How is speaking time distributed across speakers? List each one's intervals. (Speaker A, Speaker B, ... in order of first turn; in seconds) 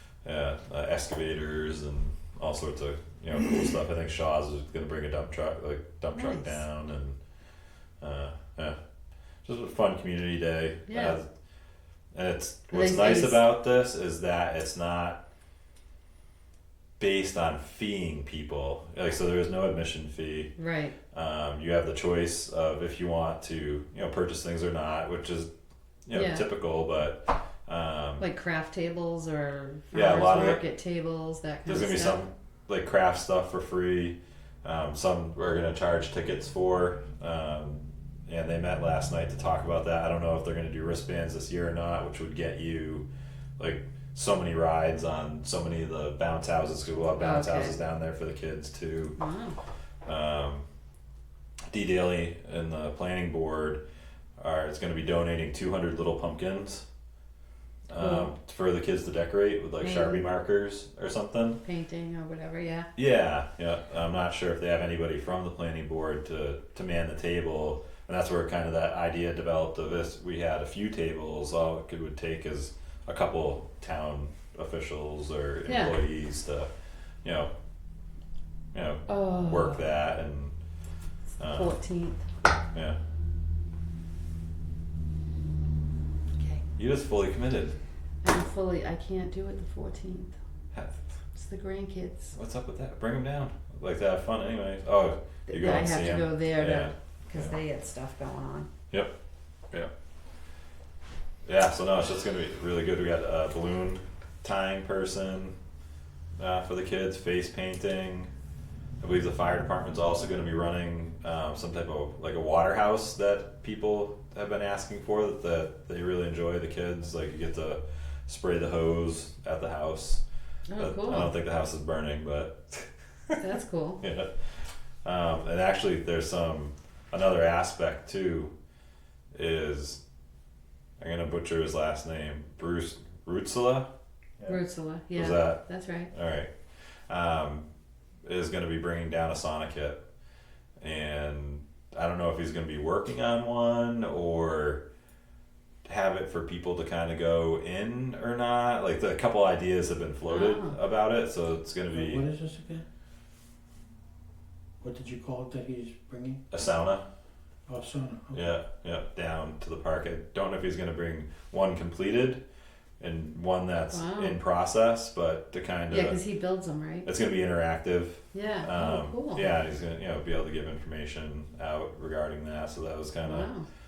Speaker A: 0.2-7.2, 8.0-8.8, 9.4-11.3, 12.1-15.2, 17.0-20.5, 21.1-25.5, 26.1-28.3, 29.9-30.6, 31.7-43.1, 43.6-49.2, 50.0-50.6, 51.7-53.8, 54.4-56.9, 57.9-61.6, 63.0-76.7, 77.2-77.5, 78.7-80.5, 81.4-81.8, 86.8-87.8, 90.7-91.1, 92.3-97.5, 101.5-105.5, 106.4-108.3, 109.0-120.2, 120.8-123.4, 124.0-124.3, 125.0-128.5, 129.3-130.0, 131.0-133.9, 135.1-136.5, 137.1-137.7, 138.2-140.0, 140.8-144.8, 145.8-152.2, 156.5-157.0, 158.3-162.4, 163.0-166.2, 167.1-173.5
Speaker B: 6.2-6.6, 10.9-11.2, 12.7-13.4, 20.6-20.9, 26.1-26.5, 28.2-32.2, 47.2-47.8, 49.2-49.6, 58.0-58.3, 59.8-60.2, 61.6-62.9, 75.7-76.0, 79.1-79.8, 81.4-82.2, 86.4-86.6, 88.2-90.3, 91.4-92.3, 95.5-98.7, 120.7-121.3, 123.4-124.0, 134.5-136.1, 150.3-150.8, 163.9-164.4, 165.9-167.1, 168.3-169.5, 173.2-173.7
Speaker C: 151.9-152.8, 154.8-156.4, 157.7-158.4